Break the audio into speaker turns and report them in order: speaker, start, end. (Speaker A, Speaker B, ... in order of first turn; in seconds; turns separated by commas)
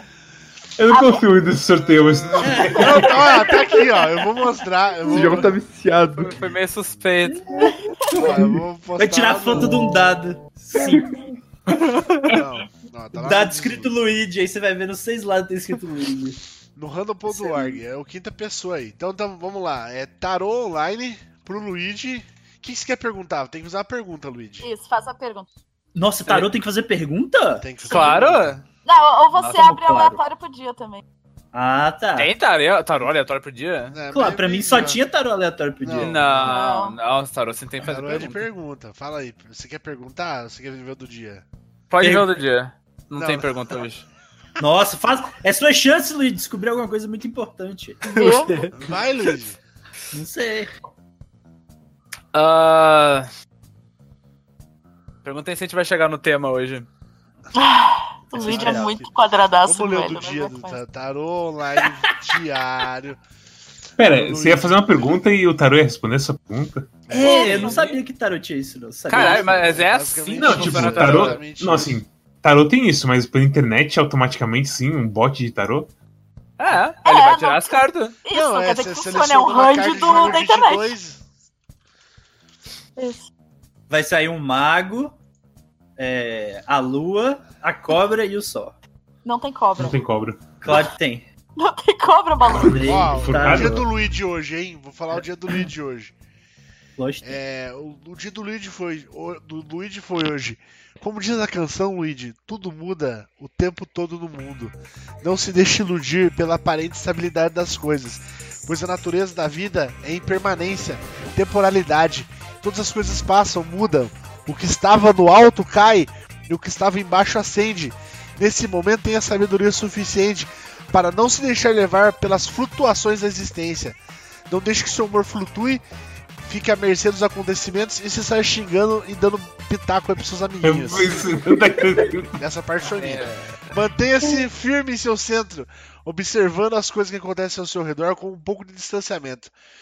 Speaker A: 0.8-3.4, Speaker B: 0.9-1.2, Speaker C: 2.1-5.6, Speaker D: 2.4-3.6, Speaker E: 5.1-6.4, Speaker F: 6.2-7.4, Speaker B: 7.6-7.9, Speaker C: 8.1-9.8, Speaker E: 8.2-8.6, Speaker D: 9.0-11.2, Speaker F: 11.7-12.3, Speaker C: 12.2-14.0, Speaker D: 13.2-16.4, Speaker C: 16.8-24.7, Speaker D: 17.3-17.8, Speaker B: 24.6-25.5, Speaker D: 25.9-27.7, Speaker F: 26.3-26.5, Speaker C: 27.6-28.6, Speaker B: 27.9-28.1, Speaker F: 27.9-28.6, Speaker B: 28.9-31.0, Speaker D: 29.4-30.2, Speaker D: 31.5-32.3, Speaker F: 32.2-34.0, Speaker C: 33.9-35.0, Speaker D: 34.1-36.5, Speaker C: 35.8-36.5, Speaker F: 36.0-38.4, Speaker B: 36.5-37.0, Speaker C: 37.8-41.5, Speaker F: 41.9-44.1, Speaker D: 42.0-42.3, Speaker C: 43.1-43.8, Speaker D: 44.6-48.6, Speaker B: 48.1-48.5, Speaker E: 48.2-48.7, Speaker C: 48.7-49.6, Speaker D: 50.1-50.7, Speaker F: 52.3-53.3, Speaker F: 55.2-56.9, Speaker B: 57.5-60.8, Speaker C: 58.3-63.2, Speaker D: 58.3-59.0, Speaker A: 64.0-67.0, Speaker C: 64.0-65.2, Speaker C: 67.1-67.8, Speaker D: 67.1-69.8, Speaker F: 67.2-68.0, Speaker B: 67.2-67.8, Speaker F: 69.1-71.4, Speaker C: 69.1-72.0, Speaker A: 70.4-75.9, Speaker F: 76.6-78.2, Speaker B: 77.0-80.9, Speaker C: 78.3-81.2, Speaker B: 83.0-83.2, Speaker D: 83.9-85.2, Speaker D: 86.0-88.8, Speaker B: 89.2-90.0, Speaker A: 89.8-90.4, Speaker D: 90.6-91.3, Speaker B: 91.6-92.9, Speaker A: 92.5-93.8, Speaker D: 92.6-93.9, Speaker C: 92.8-96.1, Speaker D: 97.0-97.4, Speaker C: 97.2-124.0, Speaker C: 124.5-125.8, Speaker C: 126.4-131.3, Speaker A: 130.6-132.4, Speaker C: 132.3-139.5, Speaker F: 132.8-133.6